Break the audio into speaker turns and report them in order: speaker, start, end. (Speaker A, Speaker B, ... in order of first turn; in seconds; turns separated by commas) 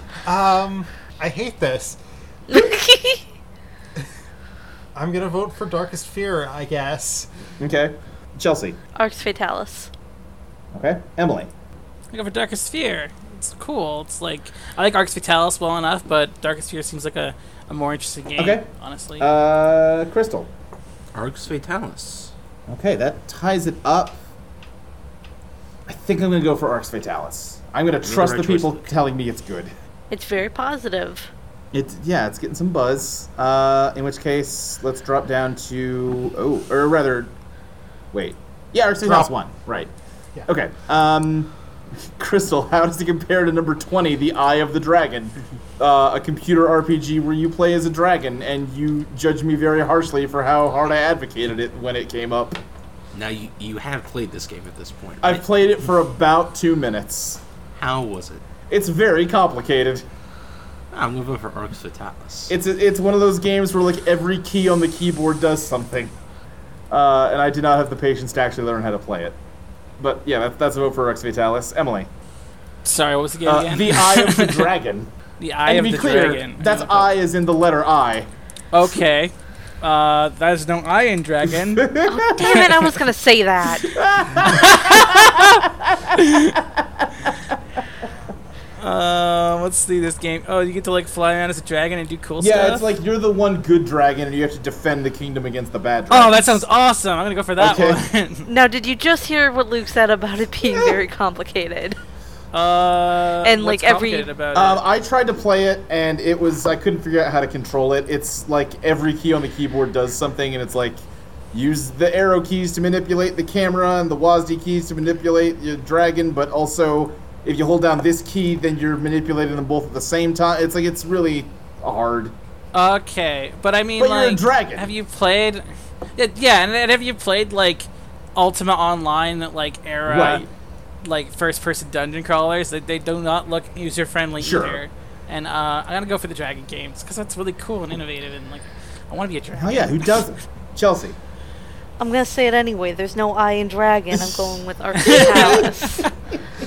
Speaker A: 0.2-2.0, Speaker B: 2.5-3.3, Speaker A: 4.9-7.3, Speaker C: 7.6-8.8, Speaker B: 8.9-9.9, Speaker C: 10.7-11.5, Speaker D: 12.1-19.3, Speaker C: 18.4-18.7, Speaker C: 19.2-20.5, Speaker E: 21.1-22.3, Speaker C: 22.7-24.2, Speaker C: 25.9-29.7, Speaker E: 28.0-28.9, Speaker B: 30.1-31.3, Speaker C: 31.7-37.3, Speaker C: 38.1-39.9, Speaker A: 39.0-39.3, Speaker C: 40.5-41.5, Speaker C: 42.2-52.6, Speaker E: 53.1-55.4, Speaker C: 55.2-57.4, Speaker E: 57.8-58.4, Speaker C: 58.7-60.0, Speaker E: 60.9-62.5, Speaker C: 62.5-66.1, Speaker C: 66.9-69.3, Speaker C: 70.0-72.1, Speaker D: 72.8-74.7, Speaker C: 73.4-75.1, Speaker D: 75.4-77.1, Speaker C: 75.6-78.3, Speaker D: 78.7-82.8, Speaker C: 81.8-82.5, Speaker B: 82.1-83.9, Speaker C: 83.8-87.3, Speaker D: 84.4-85.6, Speaker D: 86.2-86.5, Speaker D: 88.8-92.8, Speaker C: 92.4-96.6, Speaker D: 96.1-98.5, Speaker C: 97.6-98.0, Speaker B: 98.5-102.0, Speaker C: 100.6-100.9, Speaker D: 102.5-104.8, Speaker B: 103.4-104.3, Speaker C: 104.5-111.0, Speaker C: 111.5-122.3, Speaker D: 122.7-130.4, Speaker C: 124.0-124.9, Speaker C: 130.0-130.5, Speaker D: 131.0-140.2, Speaker C: 134.4-134.8, Speaker C: 139.5-141.2, Speaker B: 142.0-146.1, Speaker C: 144.3-144.5, Speaker D: 144.9-146.1, Speaker C: 145.1-145.5